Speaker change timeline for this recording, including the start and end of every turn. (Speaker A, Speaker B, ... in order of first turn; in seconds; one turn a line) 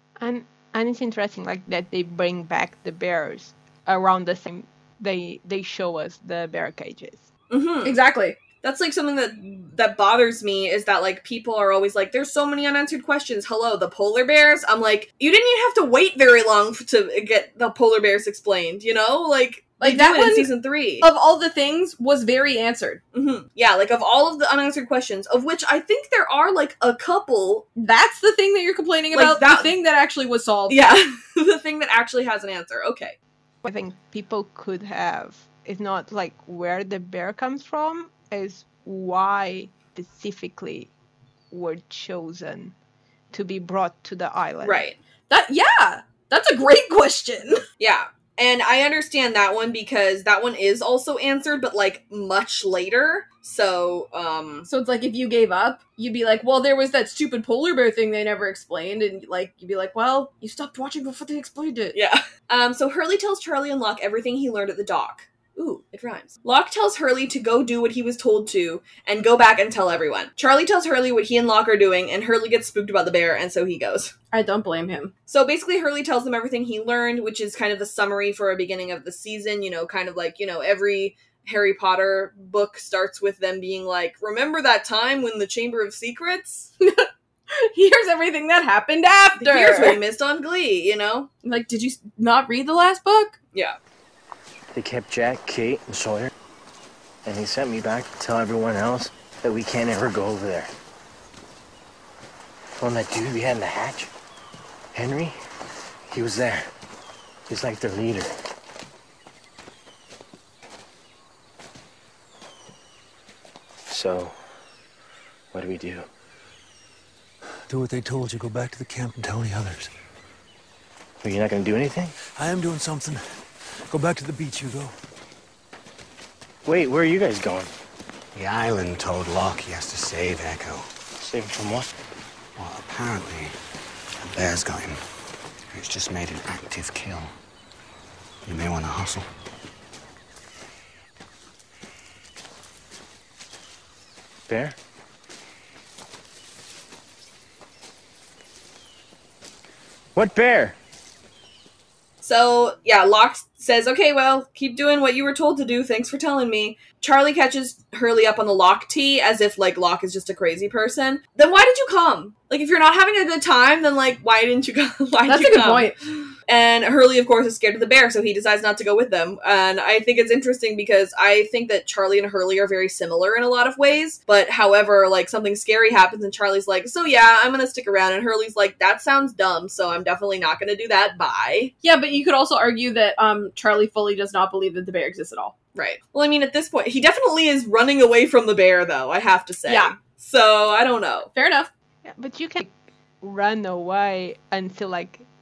Speaker A: 0.2-7.2
Speaker B: 7.5-8.0
Speaker C: 7.8-8.4
Speaker B: 8.6-21.1
Speaker C: 19.8-23.0
Speaker B: 23.1-27.7
Speaker C: 27.8-30.8
Speaker B: 29.1-29.8
Speaker B: 30.7-33.2
Speaker A: 33.6-40.9
Speaker A: 41.5-42.8
Speaker A: 43.3-44.9
Speaker B: 44.6-45.0
Speaker C: 45.3-47.6
Speaker B: 47.8-54.7
Speaker C: 54.7-62.0
Speaker B: 61.9-74.1
Speaker C: 74.3-75.1
Speaker B: 75.3-86.7
Speaker C: 86.8-90.0
Speaker B: 89.4-91.3
Speaker C: 91.4-93.4
Speaker D: 94.7-96.3
Speaker D: 97.2-100.7
Speaker D: 102.8-104.1
Speaker D: 104.9-105.4
Speaker D: 106.1-106.7
Speaker D: 107.5-108.3
Speaker D: 113.9-114.4
Speaker D: 115.5-116.1
Speaker E: 117.7-119.9
Speaker D: 121.2-122.1
Speaker E: 122.3-123.2
Speaker E: 123.9-124.9
Speaker D: 126.7-127.7
Speaker F: 128.3-130.9
Speaker D: 131.2-131.9
Speaker F: 132.6-133.5
Speaker F: 134.2-135.0
Speaker F: 135.7-137.3
Speaker F: 138.4-139.3
Speaker D: 144.5-144.8
Speaker D: 150.2-150.8
Speaker B: 152.2-181.7
Speaker C: 165.3-166.0
Speaker C: 181.8-185.6
Speaker B: 185.8-191.3
Speaker C: 189.7-190.0
Speaker C: 191.3-191.7
Speaker A: 192.1-192.7
Speaker A: 193.2-195.2